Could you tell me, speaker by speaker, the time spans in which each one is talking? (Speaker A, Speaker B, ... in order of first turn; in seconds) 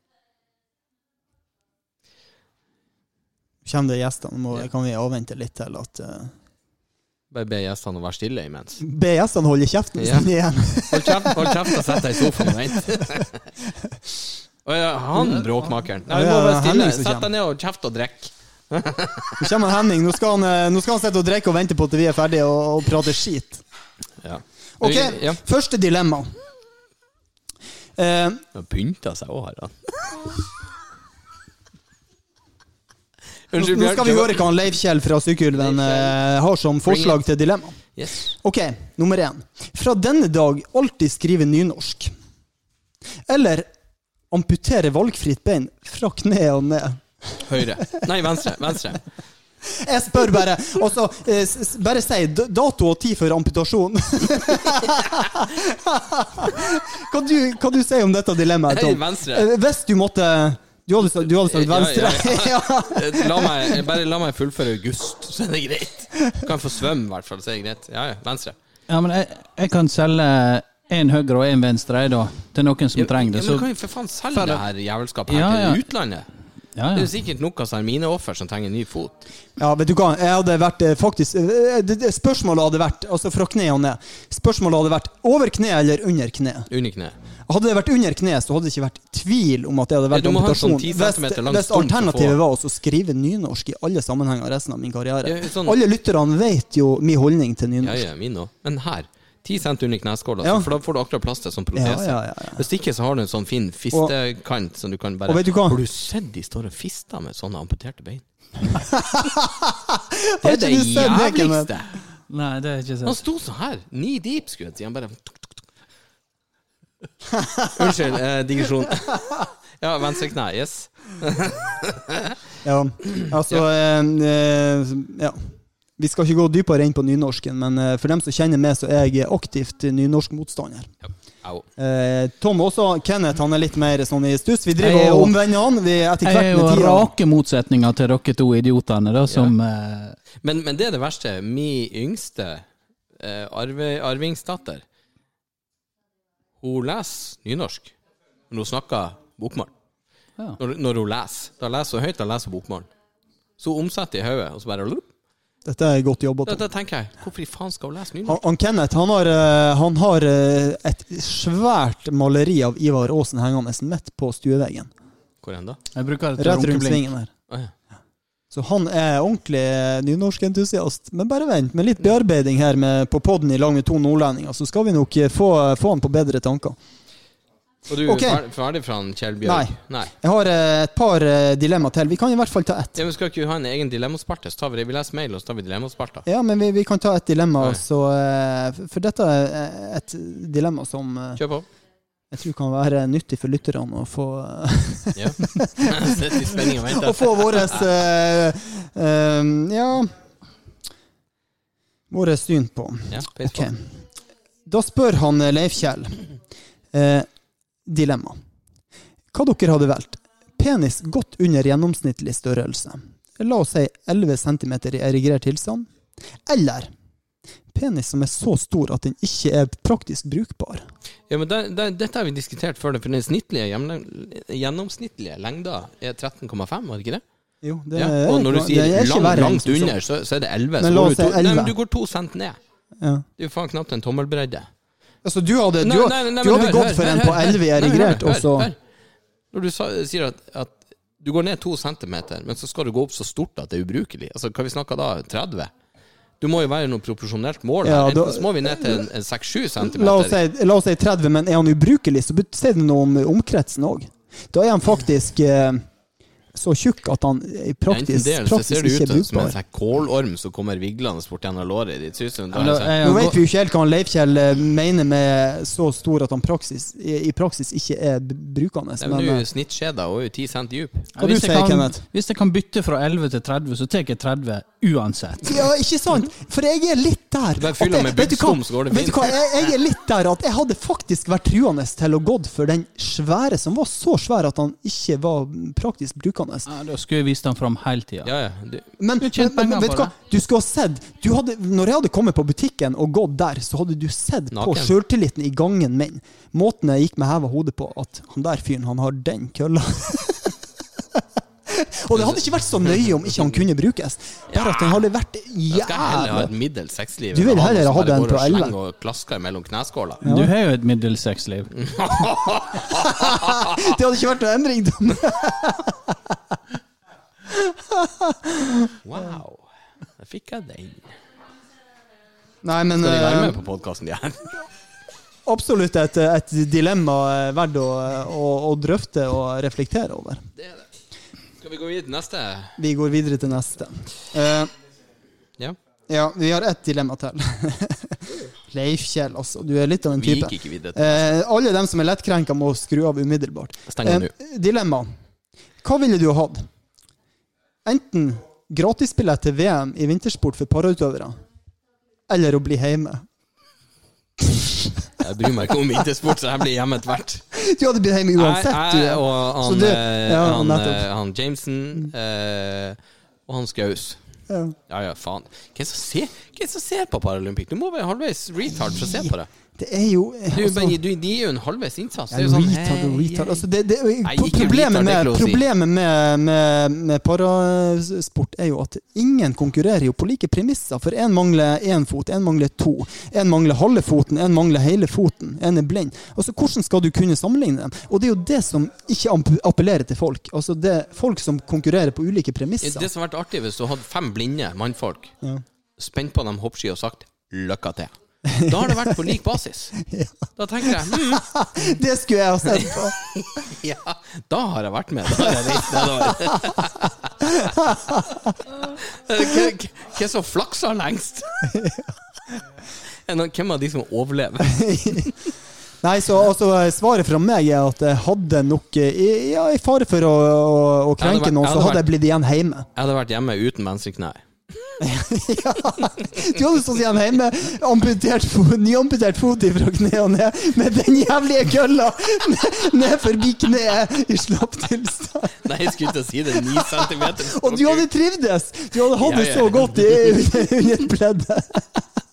Speaker A: 3.6-6.3, 8.8-13.2, 16.1-17.3, 19.4-23.6, 24.8-26.4, 28.0-28.4, 33.5-37.8, 38.3-42.1, 43.2-43.7, 44.3-47.4, 49.6-63.8, 79.6-86.7, 87.5-98.0, 100.4-100.7, 101.7-102.6, 105.3-105.8, 108.7-111.7, 117.3-118.0, 122.6-130.9, 131.8-137.1, 155.6-156.7, 158.2-164.9, 166.4-167.3, 168.5-176.8, 178.0-178.4, 179.4-183.0, 186.2-191.4, 192.3-200.1, 202.1-203.9, 204.7-206.2, 206.9-207.3, 207.8-208.4, 209.3-215.9, 216.4-216.9, 217.7-220.8, 227.6-229.9, 230.8-231.7, 233.0-233.2, 235.2-238.7, 247.8-249.1, 249.8-255.8, 256.5-259.6, 263.0-269.4, 271.2-272.0, 275.4-286.7, 289.0-300.6, 301.7-306.5, 307.3-308.8, 310.2-310.5, 312.9-316.4, 317.5-319.0, 322.6-323.6, 325.4-330.4, 332.8-334.7, 336.1-345.1, 345.8-346.7, 347.8-351.4, 352.3-353.2, 354.4-354.9, 357.5-361.1, 364.5-364.8, 369.0-371.0, 372.3-393.1, 398.5-399.3, 399.9-403.1, 405.3-406.7, 407.4-408.5, 411.6-412.1, 414.6-415.3, 416.0-422.9, 425.0-435.6, 436.5-442.0
Speaker B: 7.3-8.8, 10.0-10.3, 10.9-13.4, 14.6-19.4, 24.2-25.4, 28.5-30.2, 33.5-34.5, 35.5-36.1, 36.9-37.2, 38.0-38.3, 47.4-49.0, 58.6-59.5, 61.2-68.6, 73.0-76.3, 76.9-79.3, 86.7-87.2, 90.1-92.4, 95.2-95.8, 97.8-108.2, 110.4-112.0, 113.0-115.6, 117.7-122.3, 123.2-123.6, 131.0-131.6, 139.3-139.5, 140.4-142.7, 143.2-144.8, 146.6-147.9, 148.5-149.7, 150.6-152.9, 153.6-155.1, 156.4-158.4, 165.4-165.8, 177.9-180.1, 182.9-186.2, 191.3-191.7, 195.1-197.8, 203.1-203.7, 221.3-227.2, 227.9-232.6, 233.4-234.7, 235.8-238.8, 239.5-245.7, 246.4-250.4, 257.9-263.0, 269.0-271.1, 277.6-279.4, 288.2-288.9, 294.5-294.9, 302.1-303.6, 304.5-305.0, 305.7-310.2, 311.7-313.9, 319.0-319.6, 320.2-321.1, 323.0-324.5, 330.6-330.9, 331.6-332.8, 340.2-341.3, 343.9-344.3, 355.2-357.4, 358.4-364.2, 364.9-369.5, 370.5-373.6, 374.2-375.6, 392.8-395.4, 396.0-399.9, 400.6-401.6, 402.7-407.5, 408.8-411.7, 413.2-415.3, 421.2-422.1, 422.9-424.9, 435.6-438.1, 439.2-440.4
Speaker C: 68.9-73.7, 74.3-74.6, 75.3-75.8, 76.8-77.1, 112.3-113.2, 134.8-135.4, 136.2-140.2, 165.9-167.1, 262.5-263.4, 271.1-275.7, 286.7-288.3, 289.2-290.1, 310.2-311.7